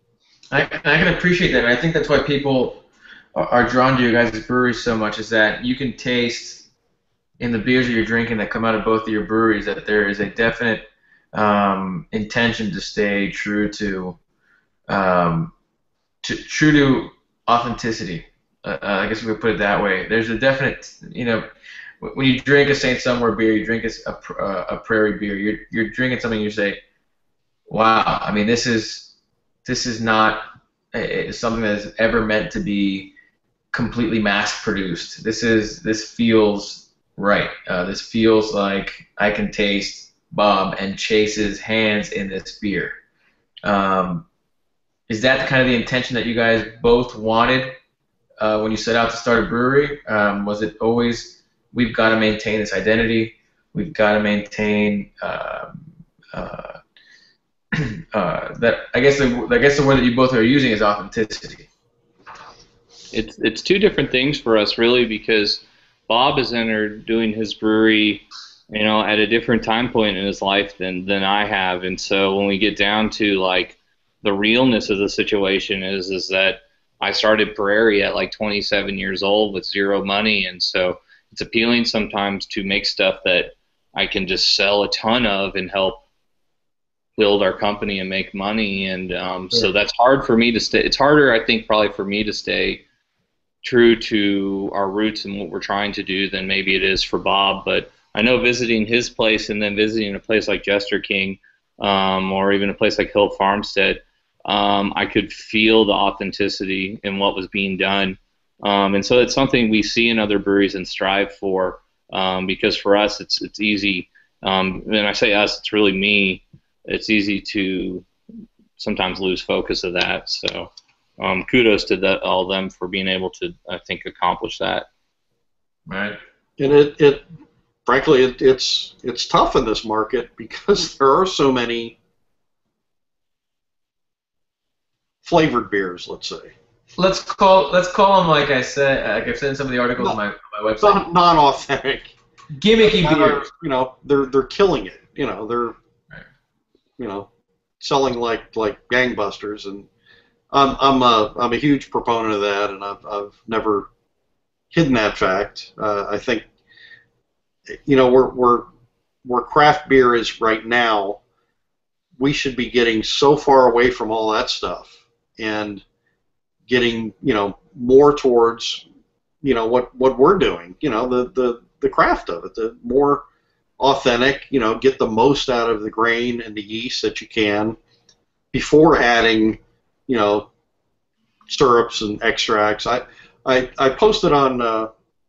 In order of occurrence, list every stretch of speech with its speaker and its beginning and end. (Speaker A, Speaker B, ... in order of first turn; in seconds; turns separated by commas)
Speaker A: 0.5-2.8, Speaker A: 3.4-6.6, Speaker A: 7.4-14.2, Speaker A: 14.9-15.5, Speaker A: 16.2-21.5, Speaker A: 22.0-26.8, Speaker A: 27.7-29.1, Speaker A: 29.6-33.1, Speaker A: 33.7-43.0, Speaker A: 43.6-44.3, Speaker A: 45.1-47.7, Speaker A: 48.4-55.8, Speaker A: 56.3-56.8, Speaker A: 57.8-61.7, Speaker B: 63.1-86.0, Speaker B: 87.2-92.8, Speaker B: 93.6-118.1, Speaker B: 118.8-124.9, Speaker A: 125.9-126.2, Speaker C: 126.6-127.2, Speaker C: 127.9-132.0, Speaker C: 135.2-136.5, Speaker A: 137.0-141.0, Speaker C: 140.8-142.1, Speaker A: 142.5-143.4, Speaker C: 142.8-145.8, Speaker C: 147.0-147.3, Speaker C: 147.8-149.9, Speaker C: 150.5-153.9, Speaker C: 154.7-156.4, Speaker C: 157.7-158.7, Speaker C: 159.2-161.2, Speaker C: 162.2-165.8, Speaker C: 166.7-168.8, Speaker C: 169.4-173.2, Speaker C: 173.8-177.8, Speaker C: 178.5-180.5, Speaker C: 181.5-184.9